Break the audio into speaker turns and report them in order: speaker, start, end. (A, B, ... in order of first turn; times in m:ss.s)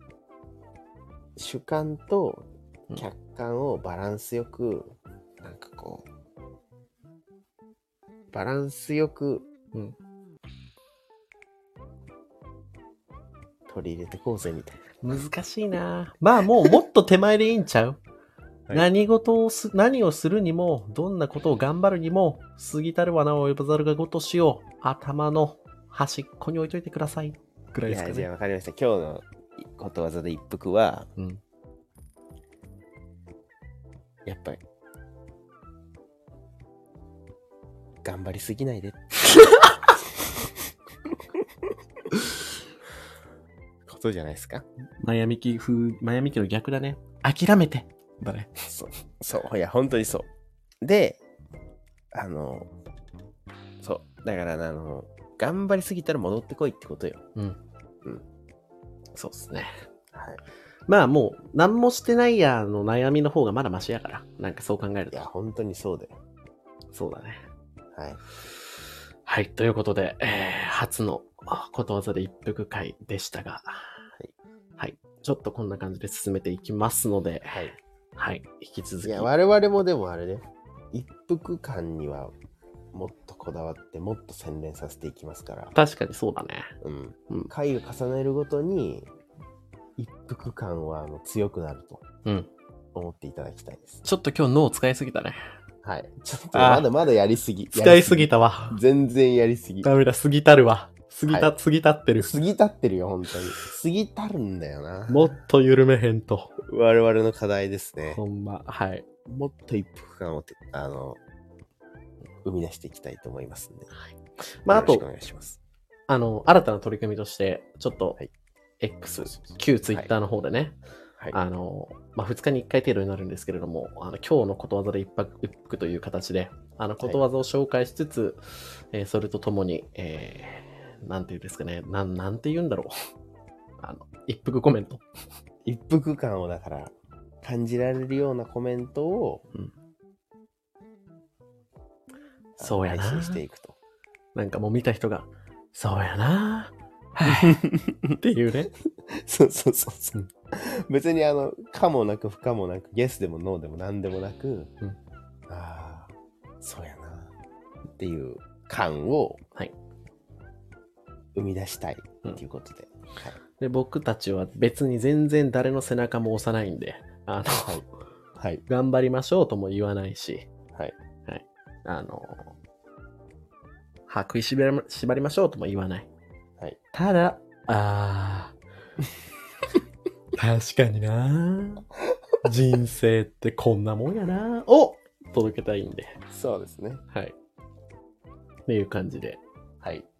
0:01.4-0:06.0 A
0:08.3-0:09.5 A
0:13.7-0:14.8 A
0:15.0-0:18.0 B
0:18.7-0:28.3 B
0:27.9-0:31.1 A
0:34.2-0:34.6 A
0:38.0-0:40.5 A
0:43.8-0:44.6 A
0:45.0-0:48.5 B
0:48.7-0:50.3 A
0:50.8-0:51.2 A
0:52.1-0:52.7 A
0:53.8-0:57.2 A
0:59.1-0:59.8 B
1:00.1-1:00.4 A
1:00.9-1:05.2 B
1:05.1-1:06.2 A
1:06.9-1:07.4 B
1:07.9-1:08.2 A
1:09.2-1:13.9 B
1:14.8-1:19.3 B
1:17.5-1:17.8 A
1:19.0-1:22.3 A
1:22.9-1:25.7 A
1:25.7-1:26.7 B
1:26.8-1:29.1 A
1:30.0-1:32.0 A
1:32.2-1:32.5 B
1:32.9-1:34.0 A
1:34.0-1:35.4 B
1:35.8-1:39.9 A
1:36.5-1:36.9 B
1:37.7-1:38.8 B
1:39.8-1:42.3 B
1:42.2-1:45.4 A
1:45.1-1:46.5 B
1:46.6-1:48.2 A
1:48.0-1:49.0 B
1:49.2-1:51.2 A
1:52.4-1:53.9 A
1:53.9-1:55.0 B
1:54.7-1:55.6 A
1:56.1-1:58.2 B
1:58.8-2:00.8 B
1:59.2-2:00.1 A
2:01.3-2:12.9 B
2:13.8-2:15.0 B
2:15.6-2:19.4 A
2:22.6-2:23.8 A
2:22.6-2:23.4 B
2:24.3-2:27.6 B
2:27.3-2:28.2 A
2:28.2-2:28.7 B
2:29.0-2:34.7 A
2:35.5-2:36.1 A
2:36.6-2:37.3 A
2:38.0-2:39.4 A
2:41.3-2:43.4 A
2:43.6-2:47.8 B
2:48.4-2:48.6 A
2:48.7-2:50.5 B
2:51.3-2:52.5 B
2:54.1-2:56.1 B
2:56.9-2:58.6 B
3:00.4-3:01.9 B
3:02.4-3:06.2 B
3:06.3-3:07.0 A
3:08.7-3:09.4 B
3:09.8-3:10.1 A